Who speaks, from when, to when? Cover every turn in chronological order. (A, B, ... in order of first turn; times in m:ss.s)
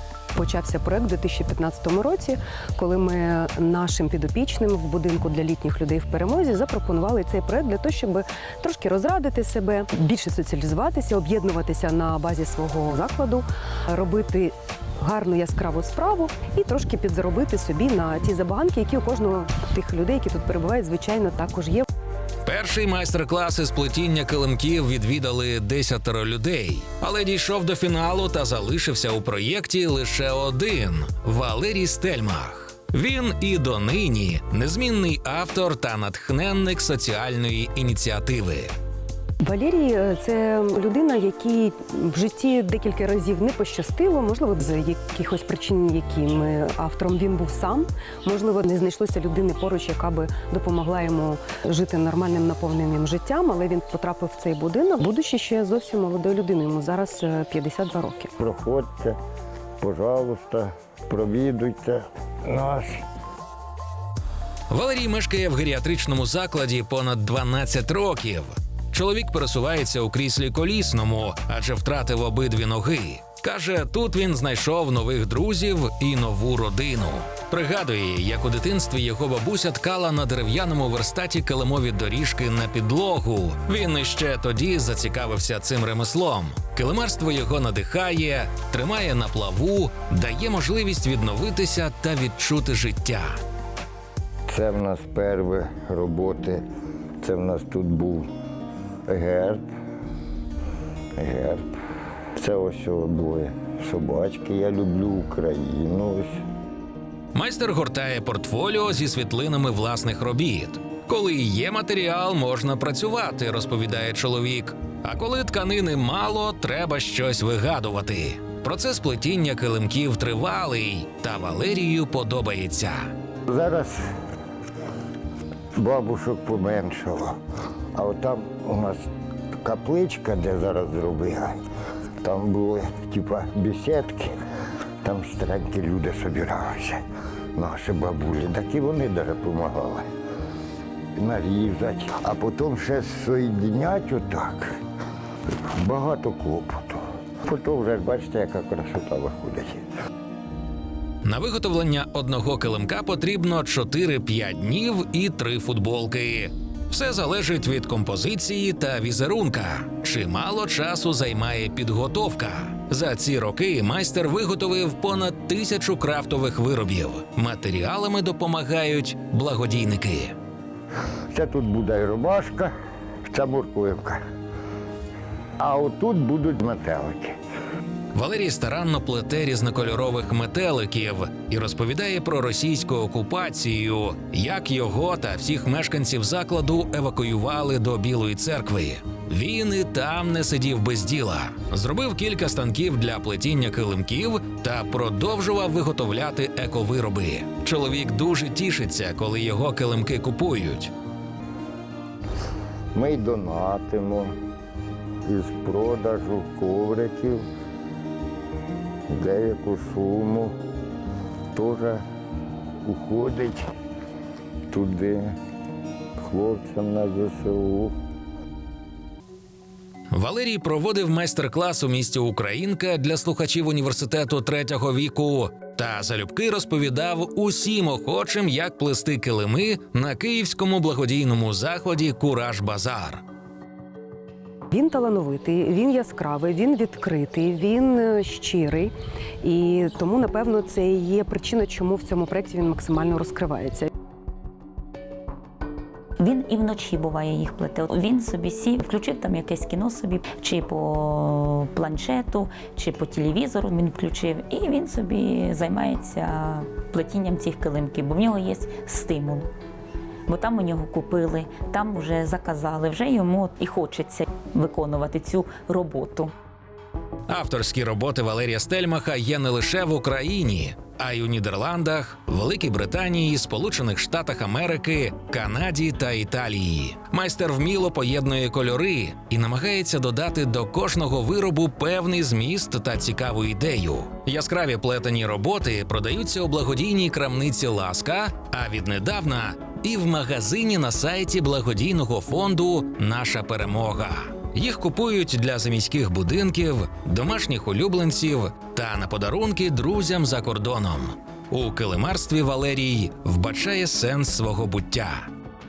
0:00.3-0:21.9 A
0:22.4-0:38.7 B
0:39.4-0:58.3 A
0:58.4-0:59.2 C
0:59.8-1:03.0 C
1:04.7-1:33.4 B
1:34.5-1:36.6 C
1:37.2-1:38.3 C
1:39.1-1:39.7 C
1:41.2-1:41.7 C
1:42.4-1:46.4 C
1:47.3-2:03.1 B
2:03.5-2:04.0 C
2:05.8-2:07.4 C
2:08.0-2:09.0 C
2:09.6-2:11.6 C
2:12.2-2:14.3 C
2:15.0-2:17.0 C
2:17.6-2:20.1 C
2:21.2-2:24.7 C
2:25.8-2:29.8 C
2:31.2-2:50.4 B
2:51.3-2:52.7 C
2:53.3-2:54.2 C
2:55.6-2:57.4 C
2:58.1-3:20.9 B
3:22.9-3:24.3 C
3:25.2-3:27.4 C
3:29.1-3:30.6 C
3:31.5-3:32.0 C
3:32.8-3:33.7 C
3:34.7-3:35.4 C
3:36.2-3:37.9 C
3:40.1-3:53.2 B
3:54.7-4:03.9 A
4:06.2-4:19.5 D
4:20.3-4:26.3 D
4:27.3-5:05.3 B